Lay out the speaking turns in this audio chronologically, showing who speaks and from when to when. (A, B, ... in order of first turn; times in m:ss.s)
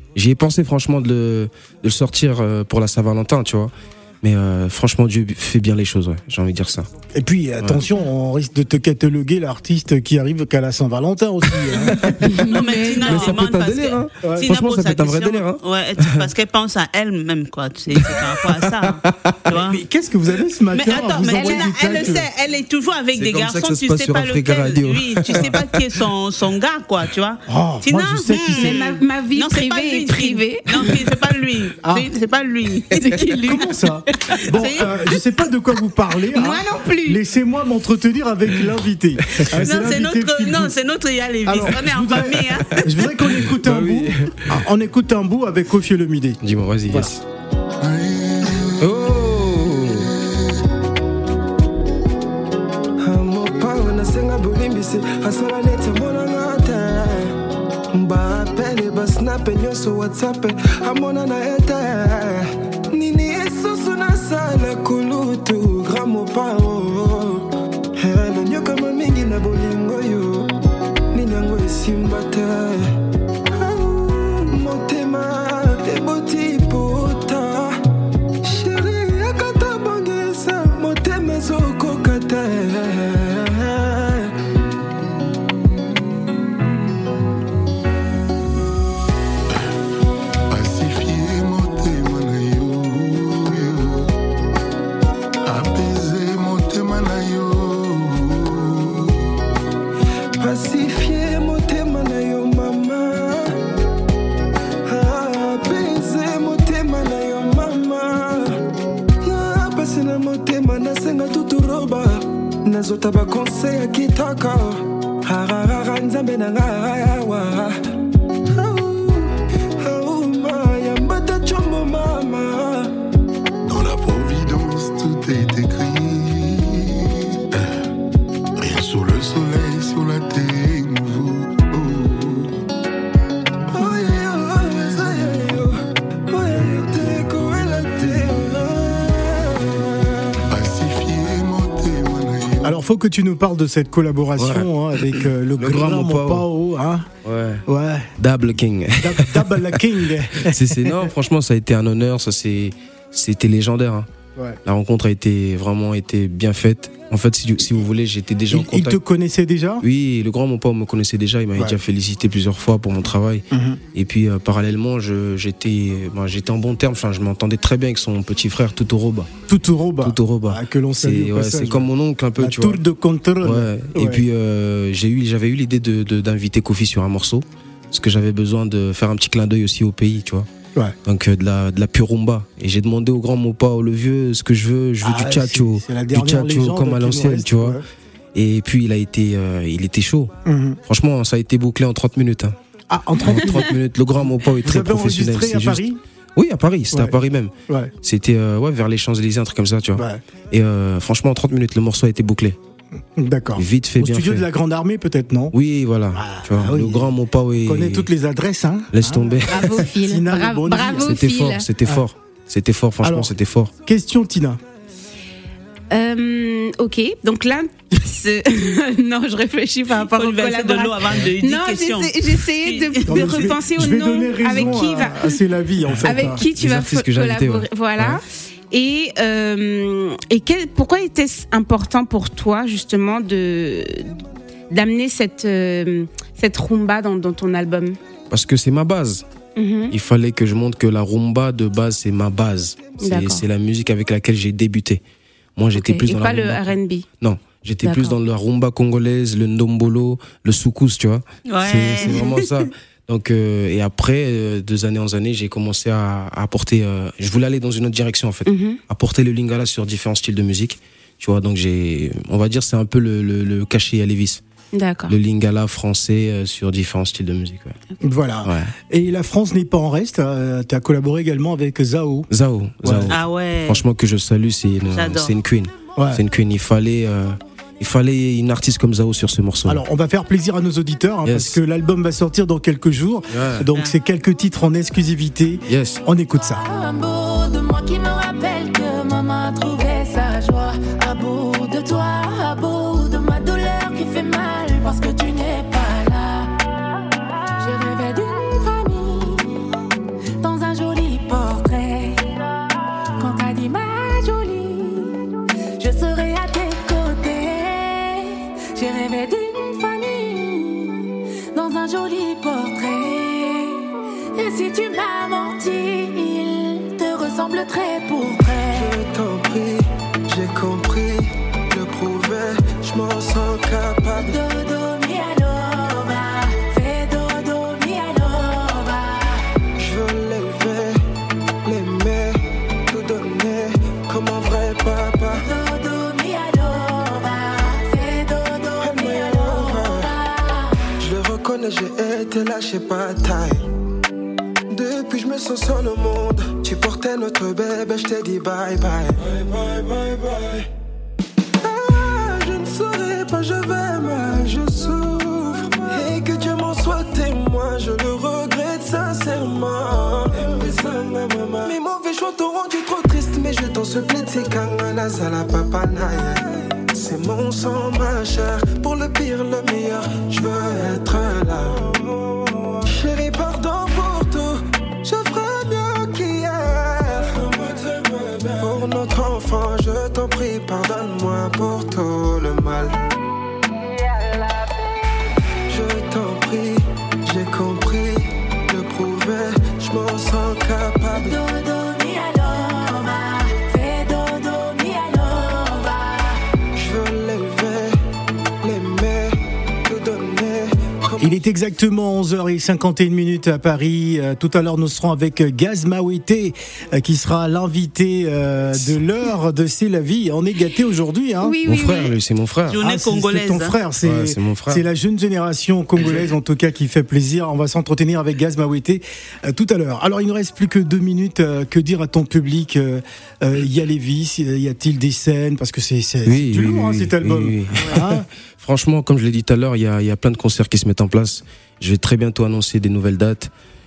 0:00.1-0:06.9 A
0:07.1-0:12.2 B
0:11.7-0:16.3 A
0:12.2-0:13.3 C
0:12.4-0:19.8 D
0:14.2-0:14.5 B
0:17.9-0:19.5 A
0:19.5-0:22.3 B
0:20.7-0:33.3 D
0:21.2-0:22.2 C
0:23.1-0:26.0 A
0:27.5-0:28.8 B
0:28.5-0:30.9 C
0:31.8-0:32.1 B
0:32.9-0:34.8 C
0:33.4-0:40.7 B
0:34.5-0:34.9 D
0:36.3-0:37.2 C
0:39.3-0:39.7 A
0:39.6-0:42.9 D
0:41.4-0:47.1 B
0:43.2-0:44.6 A
0:46.4-0:47.2 A
0:47.8-0:49.0 E
0:48.8-0:50.1 A
0:49.8-0:50.1 E
0:53.0-0:57.4 F
0:57.9-1:10.5 F
1:11.1-1:12.9 F
1:13.5-1:17.8 F
1:18.4-1:24.3 F
1:30.5-1:34.1 E
1:35.4-1:39.2 E
1:40.4-1:43.6 F
1:44.8-1:48.6 F
1:49.2-1:57.8 F
1:58.4-2:02.9 F
2:03.6-2:07.8 E
2:08.6-2:12.5 E
2:13.7-2:20.4 F
2:13.7-2:15.4 E
2:16.4-2:19.7 E
2:20.5-2:22.8 E
2:22.6-2:27.1 B
2:24.4-2:26.5 A
2:27.2-2:27.6 A
2:27.6-2:28.1 B
2:28.2-2:29.8 A
2:29.0-2:31.1 B
2:30.4-2:34.1 A
2:34.6-2:39.0 A
2:38.5-2:39.8 B
2:39.8-2:49.3 A
2:43.5-2:43.8 B
2:49.5-2:54.2 B
2:50.0-2:52.8 A
2:53.4-3:00.5 A
3:01.0-3:07.8 A
3:05.0-3:07.8 B
3:08.3-3:10.3 A
3:10.4-3:10.8 B
3:10.8-3:12.5 A
3:12.9-3:13.8 B
3:13.3-3:15.8 A
3:14.6-3:16.0 B
3:16.4-3:17.5 A
3:16.9-3:17.2 B
3:18.0-3:22.6 A
3:20.0-3:20.2 B
3:23.2-3:25.5 B
3:23.6-3:24.4 A
3:25.5-3:28.1 A
3:26.1-3:31.2 B
3:28.9-3:29.9 A
3:29.5-3:31.6 C
3:31.0-3:33.7 A
3:33.0-3:34.6 B
3:35.9-3:45.4 C
3:40.1-3:43.3 D
3:43.0-3:46.4 B
3:46.0-3:58.0 C
3:46.1-3:48.2 A
3:58.3-3:59.2 A
3:59.6-3:59.9 C
3:59.9-4:05.0 A
4:03.0-4:03.4 C
4:05.6-4:24.4 A
4:05.7-4:07.0 C
4:07.8-4:08.2 C
4:11.5-4:12.5 D
4:18.4-4:18.8 C
4:24.7-4:25.1 C
4:25.1-4:27.8 A
4:28.0-4:32.3 B
4:28.4-4:28.7 A
4:32.3-4:39.8 A
4:32.8-4:33.1 B
4:33.1-4:33.8 D
4:34.9-4:35.3 D
4:36.0-4:36.2 B
4:39.6-4:46.6 B
4:41.2-4:41.6 A
4:43.3-4:43.7 A
4:45.7-4:46.0 A
4:46.6-4:56.6 G
4:57.6-4:59.7 G
5:00.4-5:02.4 G
5:03.2-5:05.2 G
5:05.8-5:18.9 G
5:18.7-5:24.4 F
5:24.1-5:29.5 G
5:29.8-5:31.0 F
5:31.6-5:35.5 F
5:35.3-5:40.9 G
5:38.8-5:40.1 F
5:41.0-5:43.7 F
5:44.7-5:50.7 F
5:51.6-6:23.0 F
6:25.7-6:31.4 F
6:31.1-6:36.4 G
6:36.7-6:38.0 F
6:38.6-6:41.4 F
6:41.2-6:51.6 B
6:51.4-6:52.1 C
6:51.6-6:52.8 A
6:52.7-6:53.7 D
6:52.8-7:08.2 B
6:54.0-6:54.8 A
7:06.2-7:13.5 A